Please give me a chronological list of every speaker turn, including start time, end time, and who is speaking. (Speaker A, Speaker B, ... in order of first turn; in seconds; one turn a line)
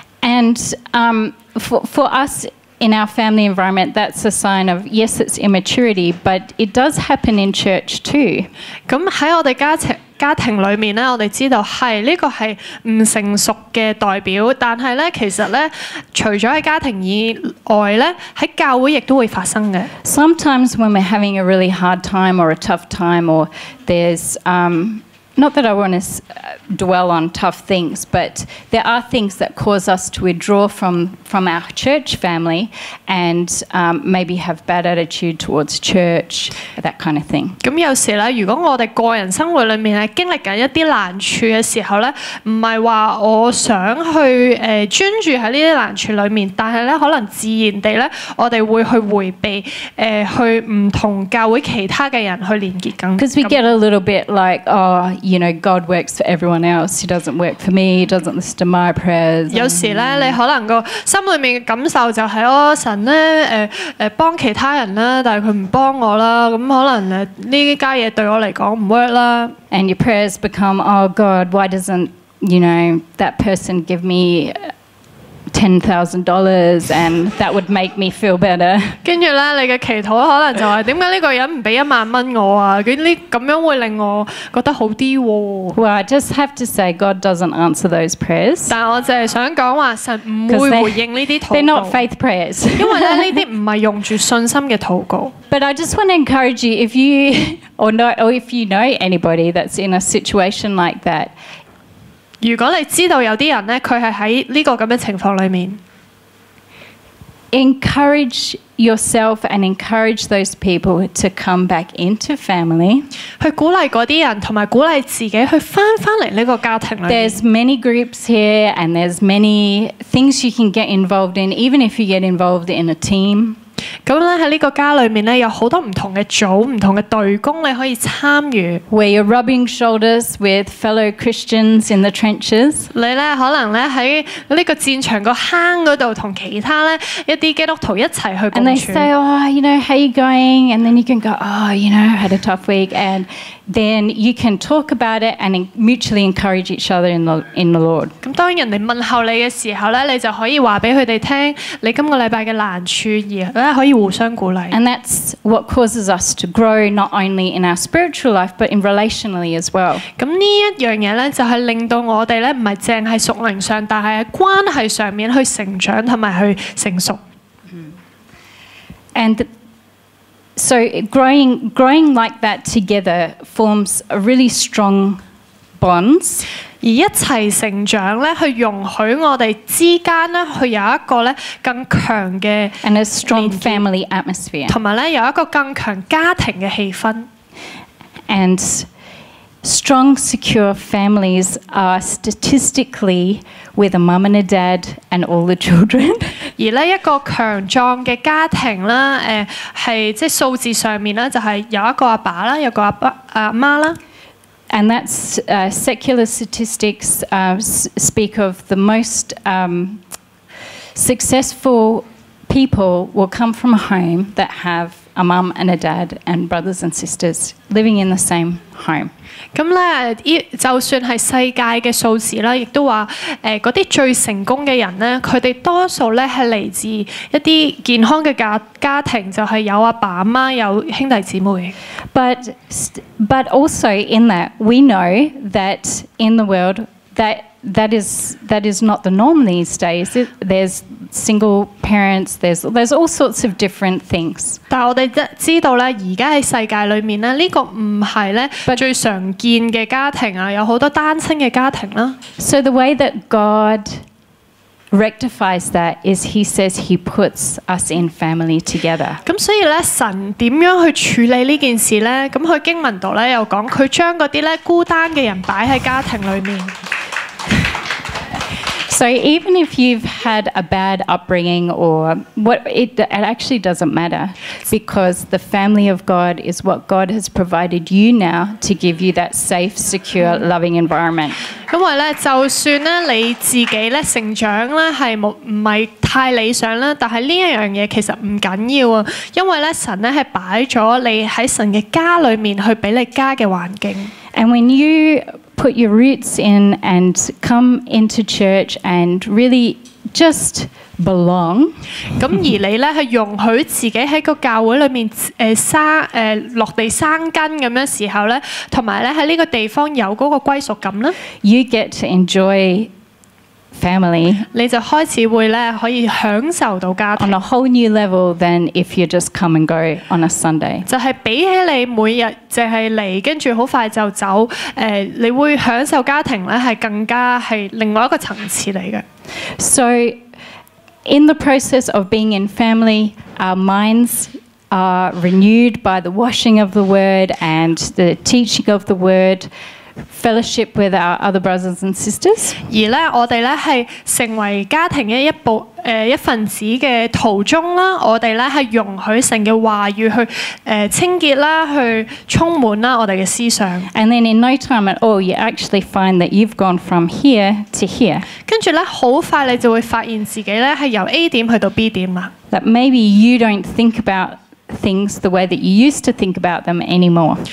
Speaker A: 0.2-8.5
Speaker B: 8.9-19.9
Speaker A: 20.0-37.6
Speaker B: 37.6-53.6
Speaker A: 53.2-60.4
Speaker B: 59.5-69.6
Speaker A: 69.7-74.7
Speaker A: 75.5-79.0
Speaker B: 79.0-85.8
Speaker A: 85.8-88.8
Speaker B: 88.7-92.0
Speaker A: 90.5-93.4
Speaker B: 92.8-95.3
Speaker A: 95.5-101.3
Speaker B: 102.4-105.8
Speaker A: 107.5-113.1
Speaker B: 113.4-117.4
Speaker A: 117.1-123.6
Speaker B: 124.1-128.8
Speaker A: 128.9-132.9
Speaker B: 132.9-139.1
Speaker A: 138.5-148.2
Speaker B: 148.2-154.8
Speaker A: 154.7-160.1
Speaker B: 160.2-167.2
Speaker A: 169.2-169.5
Speaker A: 170.6-175.2
Speaker A: 175.8-176.5
Speaker B: 176.8-183.8
Speaker A: 182.8-184.8
Speaker B: 184.7-187.3
Speaker A: 188.3-188.9
Speaker A: 189.6-196.4
Speaker B: 196.6-204.0
Speaker A: 204.7-210.0
Speaker A: 210.9-219.1
Speaker B: 219.5-231.7
Speaker A: 232.1-244.6
Speaker B: 244.7-252.2
Speaker A: 252.4-254.0
Speaker A: 254.9-259.2
Speaker B: 259.2-266.7
Speaker A: 268.9-281.4
Speaker B: 280.2-280.5
Speaker B: 281.7-294.1
Speaker A: 294.3-301.8
Speaker B: 302.2-311.1
Speaker A: 311.4-312.9
Speaker A: 313.7-314.5
Speaker B: 314.5-317.4
Speaker A: 317.2-320.9
Speaker B: 320.9-329.1
Speaker A: 329.6-330.2
Speaker A: 331.1-339.5
Speaker A: 340.1-342.6
Speaker B: 342.7-353.9
Speaker A: 353.9-358.3
Speaker B: 358.5-362.3
Speaker A: 362.5-367.4